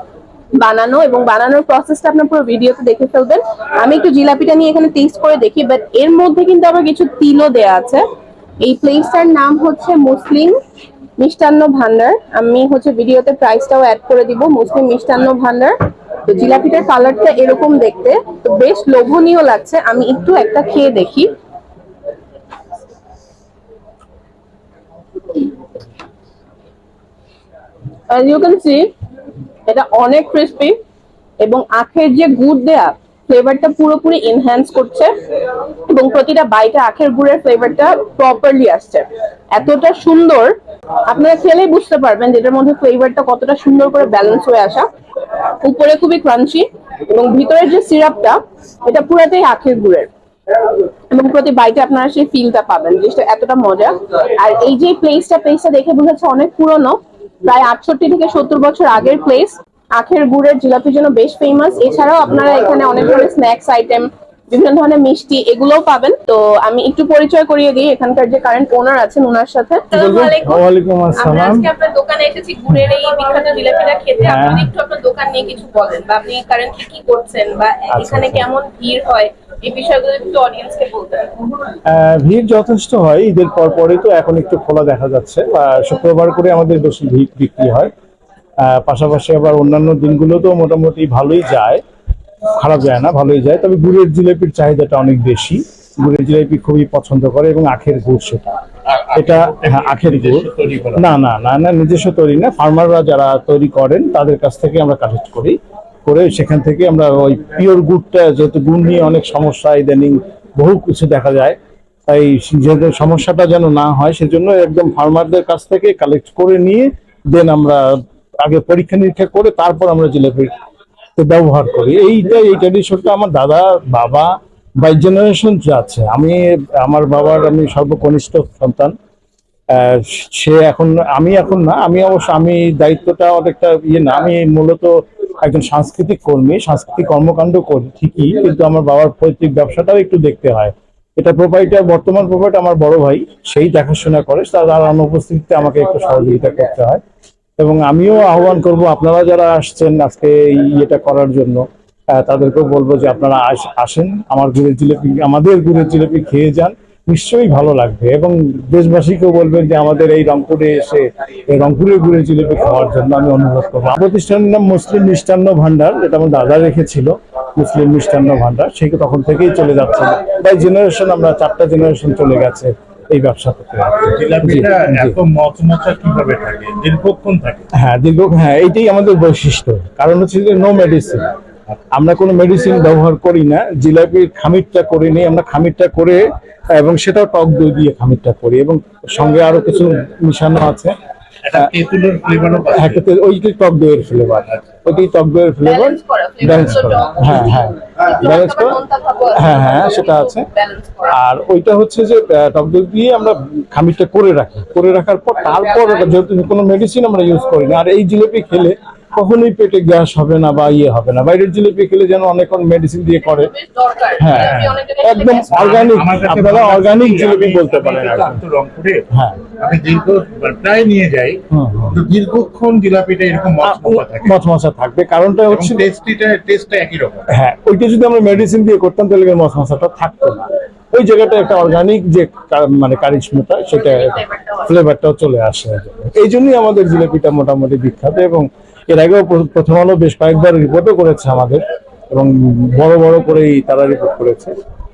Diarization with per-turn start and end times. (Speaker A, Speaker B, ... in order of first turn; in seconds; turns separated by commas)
Speaker A: 0.6-8.0, Speaker A: 8.6-10.6, Speaker A: 11.2-21.3, Speaker A: 28.1-28.9, Speaker A: 29.7-30.8, Speaker A: 31.4-35.1, Speaker A: 35.9-44.9, Speaker A: 45.6-50.1, Speaker A: 51.1-70.6, Speaker B: 69.9-71.7, Speaker A: 71.2-81.4, Speaker B: 74.2-74.7, Speaker B: 77.9-78.5, Speaker B: 81.8-87.9, Speaker B: 88.6-91.8, Speaker B: 92.5-98.6, Speaker C: 98.9-101.1, Speaker B: 99.1-120.5, Speaker B: 121.2-128.9, Speaker B: 129.7-147.0, Speaker B: 147.6-175.2, Speaker C: 174.1-177.7, Speaker B: 177.7-181.3, Speaker B: 181.9-190.9, Speaker C: 191.4-193.0, Speaker B: 192.7-198.8, Speaker A: 195.6-201.2, Speaker B: 199.3-200.5, Speaker B: 201.1-213.5, Speaker A: 213.3-215.6, Speaker B: 214.2-218.4, Speaker C: 214.3-214.7, Speaker C: 215.5-219.1, Speaker B: 219.1-219.4, Speaker C: 219.6-224.3, Speaker B: 221.5-222.0, Speaker B: 223.6-225.8, Speaker C: 225.5-227.2, Speaker B: 227.3-244.5